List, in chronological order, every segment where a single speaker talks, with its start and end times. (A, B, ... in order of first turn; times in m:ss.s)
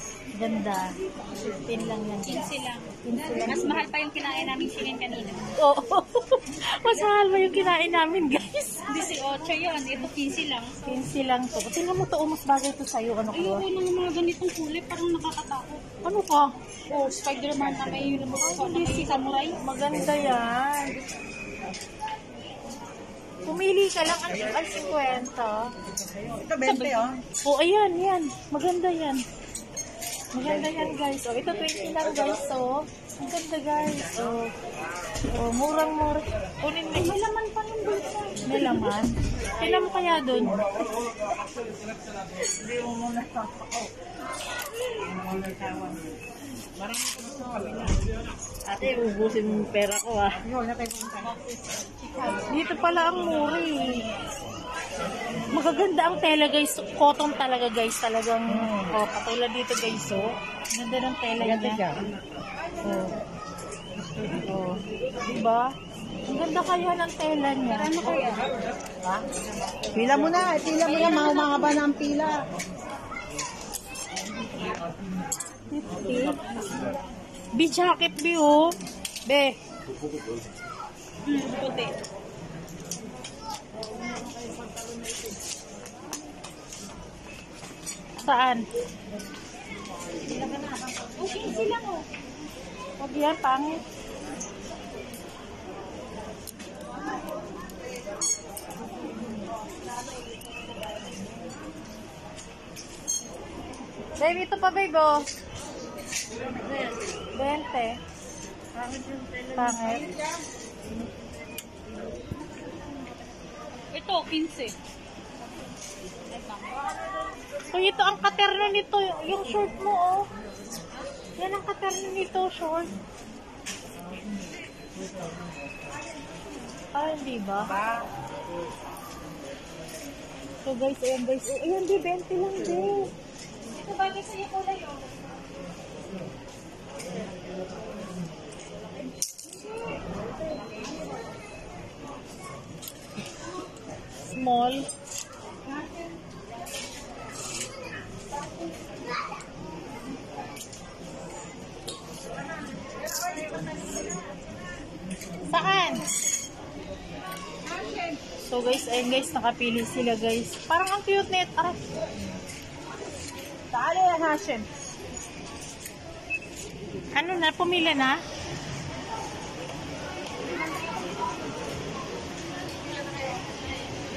0:00.3-0:03.8 A
0:02.2-0:05.5 B
0:05.6-0:09.0 A
0:08.9-0:11.0 B
0:10.8-0:13.6 A
0:13.3-0:15.8 B
0:16.0-0:16.5 A
0:16.9-0:19.6 B
0:18.4-0:21.0 A
0:20.0-0:20.5 C
0:23.4-0:25.7 A
0:25.8-0:27.2 C
0:26.6-0:27.2 B
0:27.4-0:29.2 A
0:30.3-0:34.5 A
0:30.4-0:32.0 C
0:35.3-0:37.2 A
0:36.9-0:38.9 B
0:38.4-0:40.9 A
0:40.6-0:41.0 C
0:42.3-0:43.9 C
0:45.0-0:46.1 C
0:46.8-0:48.1 C
0:48.6-0:50.4 A
0:50.4-0:51.3 C
0:51.2-0:53.3 B
0:52.3-0:54.0 A
0:55.5-1:01.8 A
0:58.5-0:59.0 C
1:01.4-1:02.0 C
1:02.8-1:03.2 A
1:04.5-1:05.7 A
1:06.3-1:08.0 A
1:07.7-1:08.4 B
1:09.0-1:09.3 C
1:09.9-1:12.4 C
1:10.7-1:11.9 B
1:15.7-1:16.4 A
1:17.5-1:18.7 A
1:19.2-1:19.6 A
1:21.2-1:21.9 B
1:28.2-1:28.6 A
1:30.3-1:30.8 C
1:31.2-1:32.0 B
1:33.0-1:33.8 A
1:44.2-1:45.3 A
1:46.5-1:47.0 C
1:47.3-1:48.0 A
1:48.8-1:50.4 C
1:49.5-1:50.1 A
1:53.9-1:54.7 B
1:56.3-1:57.2 B
1:57.7-2:00.3 A
2:01.4-2:02.9 A
2:06.9-2:07.7 A
2:07.6-2:08.1 C
2:10.6-2:13.1 A
2:13.6-2:15.4 B
2:19.9-2:20.6 B
2:24.3-2:24.9 A
2:32.9-2:34.1 C
2:35.5-2:36.0 A
2:37.6-2:38.2 C
2:38.5-2:41.8 A
2:43.7-2:44.6 C
2:47.1-2:48.2 A
2:50.4-2:51.1 B